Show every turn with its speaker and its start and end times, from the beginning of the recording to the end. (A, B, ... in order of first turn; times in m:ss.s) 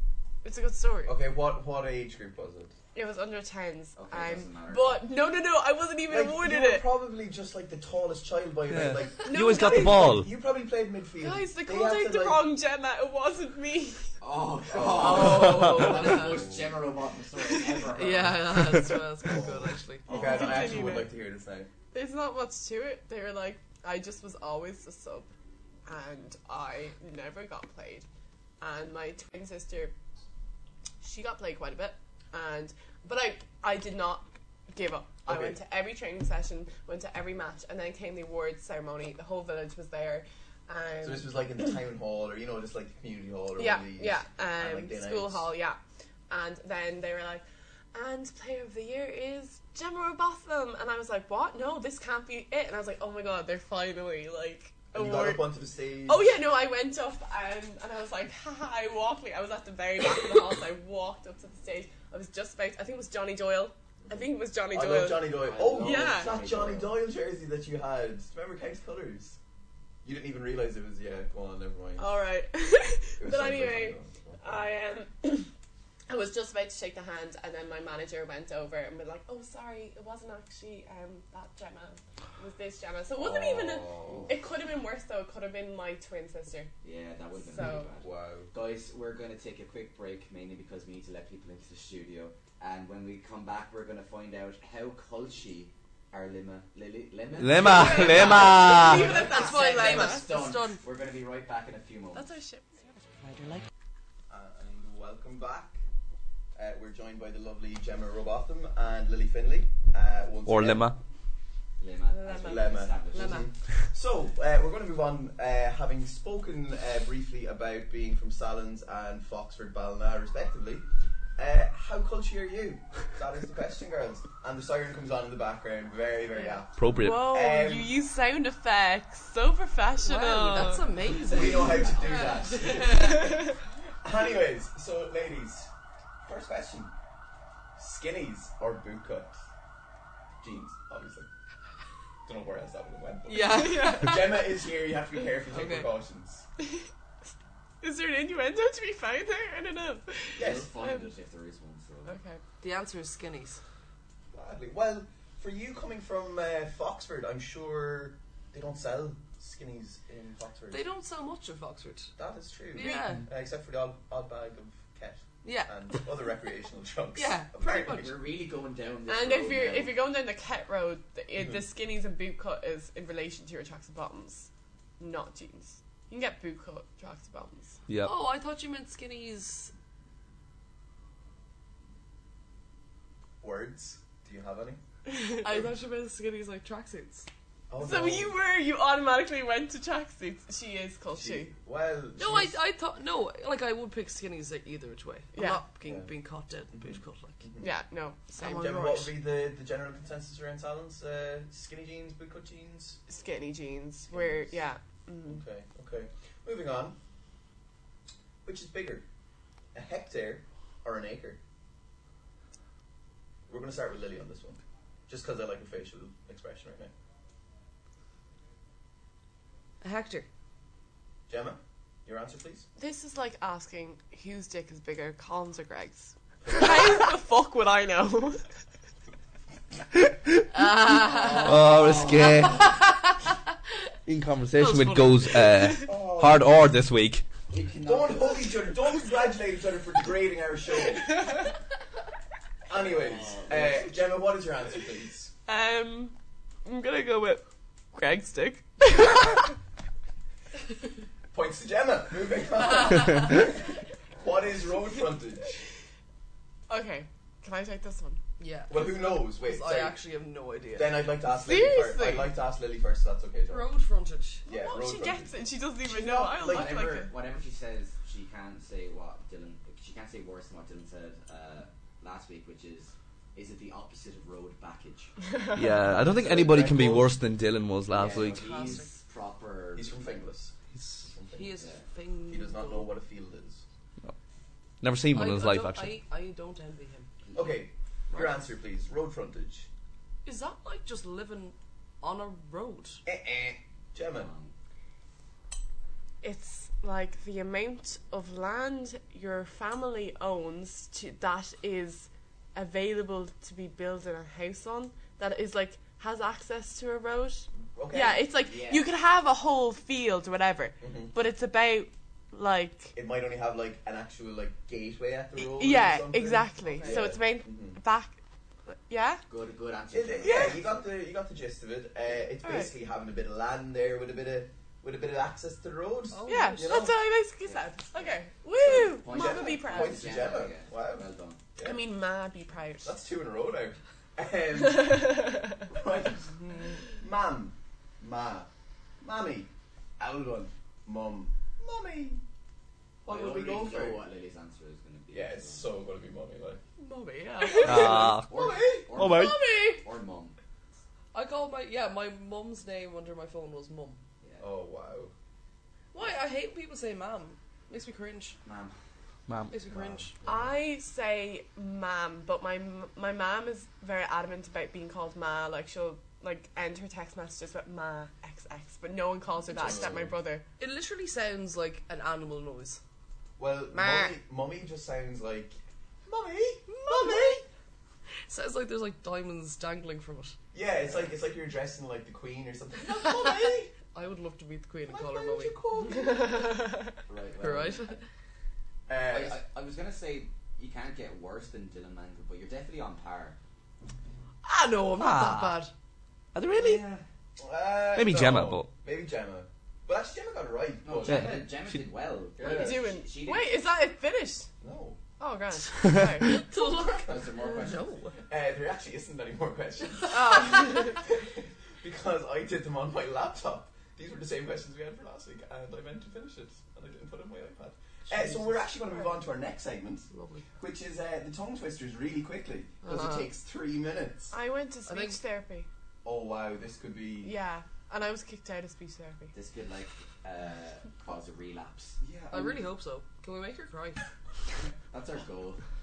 0:00.4-0:01.1 A
0:01.0-0:02.7 B
0:02.9-0:06.9 A
0:04.0-0:05.0 C
0:06.1-0:12.5 B
0:08.7-0:10.3 D
0:09.2-0:10.2 A
0:11.2-0:14.1 A
0:14.2-0:18.7 C
0:14.7-0:16.6 B
0:15.5-0:16.4 E
0:17.9-0:20.4 E
0:19.3-0:19.5 B
0:20.1-0:21.7 B
0:20.1-0:21.1 A
0:20.2-0:20.4 C
0:21.9-0:25.3 A
0:25.8-0:28.0 A
0:28.6-0:29.9 A
0:31.0-0:41.4 A
0:35.2-0:35.6 B
0:41.0-0:45.5 B
0:43.6-0:45.8 A
0:46.3-0:55.5 A
0:54.9-0:56.3 B
0:56.0-1:06.4 A
1:04.7-1:09.4 B
1:05.4-1:07.0 C
1:10.0-1:12.1 B
1:12.0-1:15.5 A
1:13.2-1:14.6 B
1:16.1-1:26.7 A
1:23.2-1:24.3 B
1:24.0-1:24.4 C
1:26.8-1:42.3 C
1:27.4-1:27.9 A
1:27.9-1:28.5 B
1:37.4-1:39.1 D
1:37.6-1:40.3 A
1:38.9-1:40.8 E
1:42.1-1:42.8 A
1:43.2-1:43.6 E
1:44.3-1:45.8 B
1:46.6-1:50.9 B
1:50.4-1:51.0 D
1:51.8-1:53.5 C
1:52.2-1:53.4 E
1:52.4-2:07.9 B
2:06.4-2:10.9 A
2:06.8-2:07.3 D
2:10.0-2:13.4 E
2:11.2-2:13.5 B
2:11.2-2:12.6 C
2:12.5-2:13.6 A
2:14.0-2:15.7 B
2:16.2-2:16.9 B
2:17.8-2:19.4 B
2:20.4-2:21.3 B
2:22.2-2:26.4 B
2:23.3-2:24.5 E
2:23.5-2:24.2 A
2:25.5-2:25.9 E
2:27.8-2:31.1 A
2:30.4-2:30.7 B
2:30.4-2:32.2 C
2:32.0-2:32.4 A
2:32.6-2:33.6 E
2:34.3-2:40.8 B
2:40.7-2:42.1 E
2:42.2-2:48.1 B
2:42.7-2:43.2 E
2:45.4-2:46.0 E
2:47.1-2:48.1 E
2:47.7-2:50.0 C
2:49.1-2:57.8 A
2:58.0-2:59.7 E
3:03.4-3:04.8 B
3:05.1-3:05.5 A
3:05.4-3:07.3 E
3:07.7-3:08.3 B
3:07.8-3:11.5 A
3:11.1-3:12.6 B
3:12.2-3:17.4 E
3:15.3-3:15.6 A
3:15.8-3:16.1 B
3:16.7-3:17.7 B
3:17.6-3:19.1 A
3:18.4-3:23.0 B
3:23.1-3:25.4 A
3:24.1-3:24.6 B
3:25.3-3:27.0 B
3:28.4-3:29.0 B
3:29.7-3:31.4 B
3:33.5-3:36.9 B
3:39.8-3:40.3 E
3:41.3-3:42.7 B
3:42.8-3:48.4 A
3:46.4-3:47.1 B
3:50.1-3:50.4 D
3:50.5-3:51.6 E
3:51.2-3:52.6 C
3:51.4-3:52.7 D
3:52.2-3:53.1 E
3:54.0-3:57.2 D
3:54.6-3:55.7 E
3:55.8-3:56.6 B
3:57.5-3:58.7 C
3:57.8-4:01.4 B
4:02.7-4:05.3 B
4:02.7-4:04.0 C
4:05.4-4:07.4 A
4:07.9-4:09.5 A
4:11.3-4:13.6 B
4:14.2-4:15.6 B
4:16.7-4:18.2 A
4:18.4-4:21.0 E
4:18.7-4:20.0 B
4:20.7-4:23.7 B
4:21.3-4:22.3 A
4:23.5-4:24.4 E
4:24.4-4:26.8 B
4:24.4-4:27.1 A
4:26.4-4:35.1 C
4:35.3-4:35.7 A
4:35.5-4:38.6 D
4:35.8-4:37.2 B
4:37.9-4:40.1 C
4:38.1-4:38.9 E
4:39.7-4:41.6 B
4:41.3-4:42.9 E
4:41.6-4:41.8 C
4:42.3-4:43.6 B
4:44.8-4:45.9 D
4:45.1-4:47.1 E
4:47.2-4:48.3 C
4:47.3-4:49.7 B
4:50.2-4:53.0 E
4:53.0-4:54.3 B
4:54.1-4:54.5 C
4:56.2-5:12.9 A
5:07.7-5:08.2 B
5:08.4-5:08.9 C
5:10.8-5:11.1 B
5:12.9-5:17.8 B
5:15.4-5:19.2 A
5:16.7-5:17.1 E
5:19.3-5:20.5 C
5:19.9-5:26.9 B
5:20.2-5:20.6 A
5:22.4-5:22.7 A
5:26.1-5:26.9 E
5:26.3-5:30.1 A
5:27.4-5:31.4 C
5:28.7-5:31.8 B
5:31.6-5:33.0 A
5:32.8-5:38.5 B
5:34.6-5:35.6 A
5:39.0-5:42.2 B
5:43.0-5:44.0 B
5:43.0-5:45.7 C
5:45.1-5:46.6 B
5:46.8-5:48.1 A
5:47.6-5:48.3 D
5:47.7-5:49.0 B
5:47.9-5:50.4 C
5:48.9-5:49.4 D
5:49.2-5:49.4 A
5:51.1-5:54.0 E
5:54.4-5:55.1 B
5:55.9-5:58.4 E
5:58.4-5:58.7 C
5:59.3-5:59.6 D
5:59.5-6:00.1 E
6:00.2-6:10.4 A
6:09.5-6:10.1 B
6:10.6-6:12.8 E
6:13.4-6:17.4 B
6:13.7-6:14.1 A
6:16.7-6:17.4 E
6:18.3-6:20.4 E
6:20.5-6:23.7 B
6:23.1-6:25.6 E
6:24.8-6:26.6 B
6:25.9-6:26.9 A
6:27.1-6:28.0 C
6:27.4-6:28.0 E
6:28.9-6:29.4 B
6:29.0-6:33.4 C
6:34.4-6:35.7 E
6:35.0-6:35.6 D
6:36.3-6:36.8 D
6:36.5-6:37.0 C
6:37.4-6:41.5 B
6:37.9-6:38.7 D
6:40.8-6:43.6 C
6:41.0-6:41.4 D
6:42.4-6:42.8 B
6:42.4-6:44.5 A
6:44.6-6:45.0 B
6:45.2-6:46.4 A
6:46.2-6:48.2 E
6:47.0-6:48.0 C
6:48.3-7:04.3 B
6:50.1-6:51.0 A
6:58.1-6:58.4 E
7:00.1-7:00.4 E
7:02.8-7:03.3 E
7:04.3-7:05.7 A
7:04.9-7:05.2 E
7:06.0-7:07.3 B
7:07.2-7:09.3 A
7:09.3-7:12.0 C
7:12.0-7:12.6 B
7:12.3-7:14.0 E
7:14.9-7:15.6 C